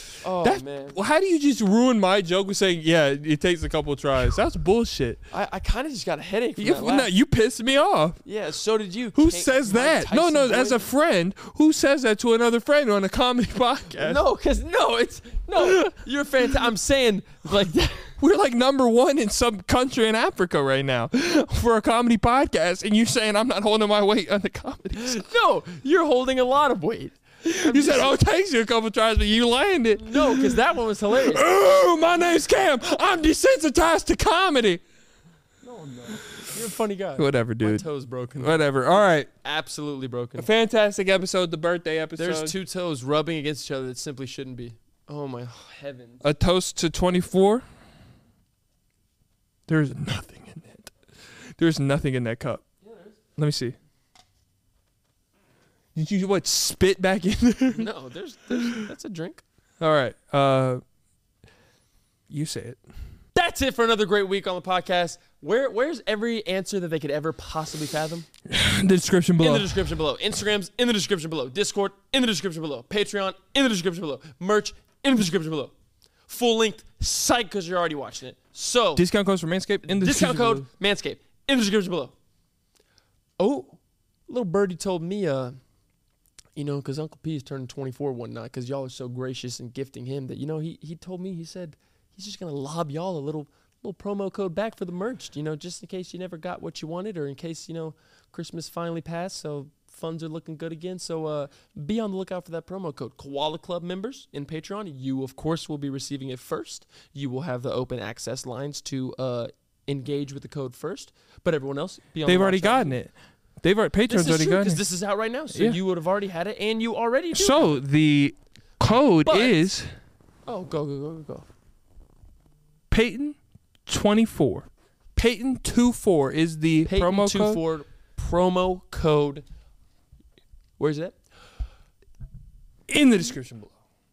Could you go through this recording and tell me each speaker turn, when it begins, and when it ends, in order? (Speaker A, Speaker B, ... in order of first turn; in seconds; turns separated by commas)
Speaker A: 0.2-1.0, Speaker B: 0.4-5.2, Speaker A: 5.3-7.1, Speaker B: 6.6-8.2, Speaker A: 8.2-10.8, Speaker B: 9.2-14.2, Speaker A: 14.0-18.1, Speaker B: 15.6-15.9, Speaker B: 18.2-25.2, Speaker A: 25.0-28.2, Speaker B: 27.4-30.6, Speaker A: 30.0-31.4, Speaker B: 31.1-34.8, Speaker A: 35.6-40.5, Speaker B: 37.2-37.9, Speaker B: 38.4-39.3, Speaker B: 40.4-42.5, Speaker A: 42.2-46.2, Speaker B: 46.2-47.6, Speaker B: 49.7-52.6, Speaker A: 52.8-53.2, Speaker B: 53.4-53.8, Speaker B: 56.0-57.9, Speaker A: 57.7-59.4, Speaker B: 59.8-60.8, Speaker B: 62.3-62.8, Speaker A: 63.4-68.3, Speaker B: 68.5-69.8, Speaker A: 69.4-75.7, Speaker A: 76.3-79.0, Speaker B: 79.0-80.7, Speaker A: 79.8-82.1, Speaker A: 83.4-85.5, Speaker A: 86.6-113.0, Speaker B: 112.3-114.8, Speaker A: 114.1-117.8, Speaker B: 115.5-115.8, Speaker B: 117.3-119.9, Speaker A: 119.2-119.7, Speaker A: 120.5-121.5, Speaker B: 122.9-127.6, Speaker A: 126.8-129.4, Speaker A: 130.8-131.2, Speaker B: 132.9-133.7